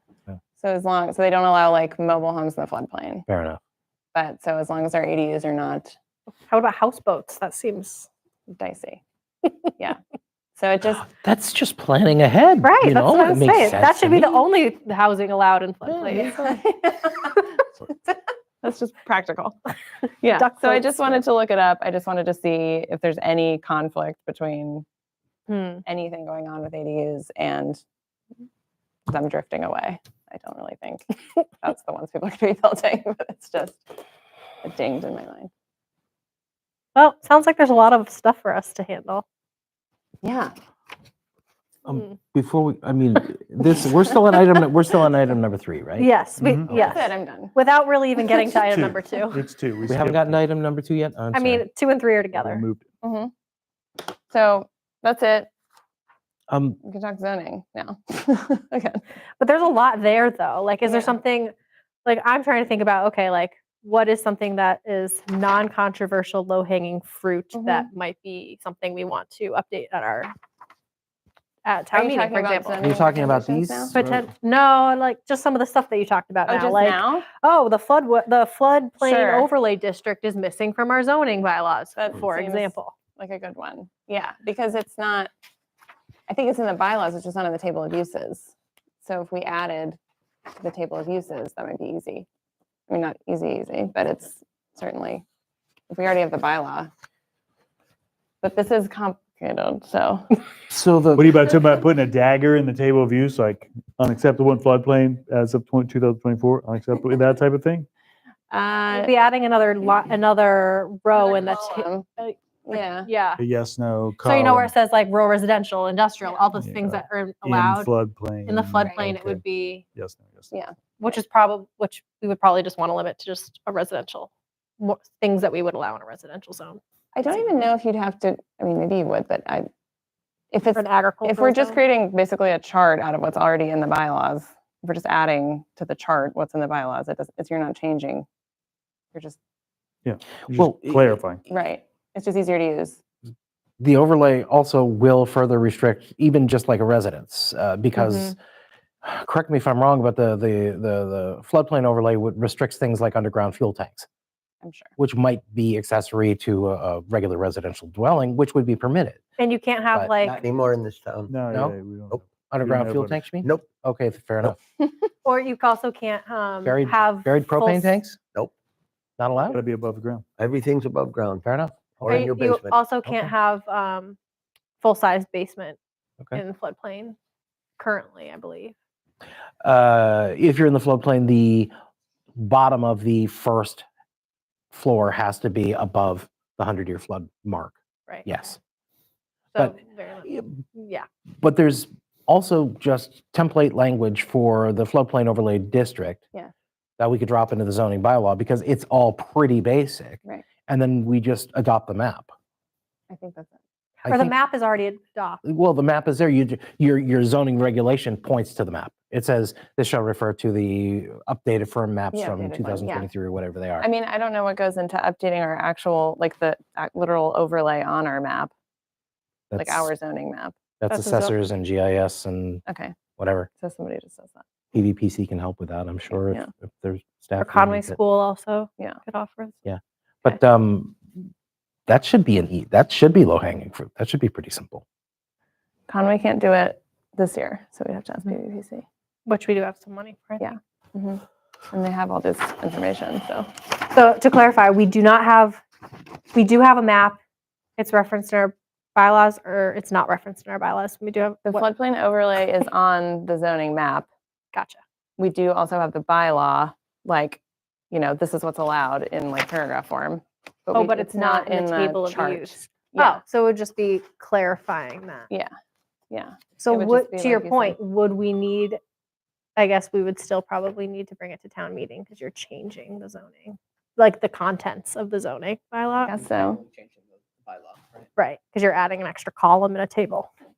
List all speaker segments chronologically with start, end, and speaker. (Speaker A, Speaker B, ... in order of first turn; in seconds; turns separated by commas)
Speaker A: 0.6-3.2, Speaker B: 3.3-3.6, Speaker A: 4.1-5.9, Speaker C: 6.5-8.1, Speaker A: 8.5-9.0, Speaker A: 10.6-11.1, Speaker B: 11.1-14.3, Speaker C: 12.6-16.6, Speaker A: 16.0-17.5, Speaker A: 18.6-19.6, Speaker A: 20.2-24.8, Speaker C: 20.3-21.2, Speaker C: 25.5-25.8, Speaker A: 25.9-27.8, Speaker A: 29.1-33.9, Speaker A: 34.6-35.5, Speaker C: 37.0-39.2, Speaker A: 40.2-40.5, Speaker B: 41.8-46.1, Speaker C: 46.0-49.4, Speaker D: 46.4-46.7, Speaker B: 46.7-47.0, Speaker A: 46.7-47.5, Speaker D: 48.6-50.4, Speaker B: 49.9-51.6, Speaker C: 51.3-52.6, Speaker D: 52.3-52.9, Speaker A: 53.0-53.3, Speaker A: 54.3-55.5, Speaker B: 56.5-56.8, Speaker A: 56.8-59.0, Speaker C: 59.4-61.5, Speaker A: 60.9-61.2, Speaker C: 62.0-70.3, Speaker A: 67.5-67.9, Speaker C: 71.7-72.9, Speaker A: 71.9-74.0, Speaker B: 72.8-74.2, Speaker C: 73.9-83.0, Speaker A: 76.5-77.3, Speaker A: 79.0-79.5, Speaker A: 82.0-85.3, Speaker A: 86.3-88.5, Speaker A: 89.0-90.0, Speaker A: 90.6-92.3, Speaker A: 92.9-95.2, Speaker A: 95.9-96.9, Speaker A: 98.4-100.3, Speaker B: 100.7-101.4, Speaker D: 101.2-107.9, Speaker A: 108.5-109.1, Speaker C: 108.9-113.4, Speaker A: 111.3-112.0, Speaker A: 112.7-113.1, Speaker D: 113.4-114.7, Speaker C: 114.2-117.9, Speaker D: 116.6-120.5, Speaker C: 118.5-119.8, Speaker A: 120.5-121.2, Speaker C: 121.0-124.3, Speaker C: 124.8-126.8, Speaker A: 127.1-129.7, Speaker A: 130.5-138.2, Speaker C: 130.8-131.8, Speaker D: 140.0-141.4, Speaker B: 140.5-141.1, Speaker A: 141.5-143.0, Speaker B: 143.8-148.3, Speaker C: 147.9-148.3, Speaker B: 149.0-154.1, Speaker A: 154.6-154.9, Speaker B: 155.0-159.2, Speaker C: 159.4-160.4, Speaker E: 160.2-161.4, Speaker D: 161.3-163.3, Speaker B: 161.5-161.8, Speaker B: 162.5-164.6, Speaker E: 163.4-163.7, Speaker C: 165.2-168.0, Speaker B: 166.6-168.2, Speaker B: 169.2-169.6, Speaker D: 169.5-170.2, Speaker E: 170.4-172.8, Speaker B: 171.4-172.2, Speaker C: 172.1-174.2, Speaker B: 173.0-173.3, Speaker C: 174.8-175.8, Speaker C: 176.3-177.2, Speaker C: 177.8-178.8, Speaker B: 179.6-181.7, Speaker B: 182.4-183.8, Speaker B: 184.7-188.6, Speaker C: 189.5-191.1, Speaker B: 189.6-190.6, Speaker B: 191.4-196.2, Speaker B: 197.0-202.3, Speaker A: 203.1-203.6, Speaker B: 204.0-204.3, Speaker C: 204.1-205.4, Speaker B: 205.4-213.9, Speaker A: 212.1-213.1, Speaker A: 213.8-218.5, Speaker B: 219.5-219.9, Speaker A: 219.6-220.6, Speaker B: 220.8-222.6, Speaker C: 220.9-221.3, Speaker A: 222.7-222.9, Speaker B: 223.2-223.5, Speaker A: 223.6-224.4, Speaker B: 224.7-228.0, Speaker A: 226.1-226.5, Speaker C: 227.4-229.6, Speaker B: 229.7-231.1, Speaker B: 231.9-234.8, Speaker A: 235.9-238.8, Speaker C: 239.3-240.6, Speaker A: 240.4-243.5, Speaker C: 243.9-245.6, Speaker C: 246.3-247.2, Speaker C: 247.8-251.7, Speaker A: 251.4-254.1, Speaker C: 254.5-254.8, Speaker A: 255.2-257.4, Speaker A: 257.9-263.2, Speaker C: 260.7-265.3, Speaker A: 266.1-267.8, Speaker C: 266.6-268.8, Speaker C: 269.6-276.2, Speaker A: 276.1-276.6, Speaker C: 278.2-280.3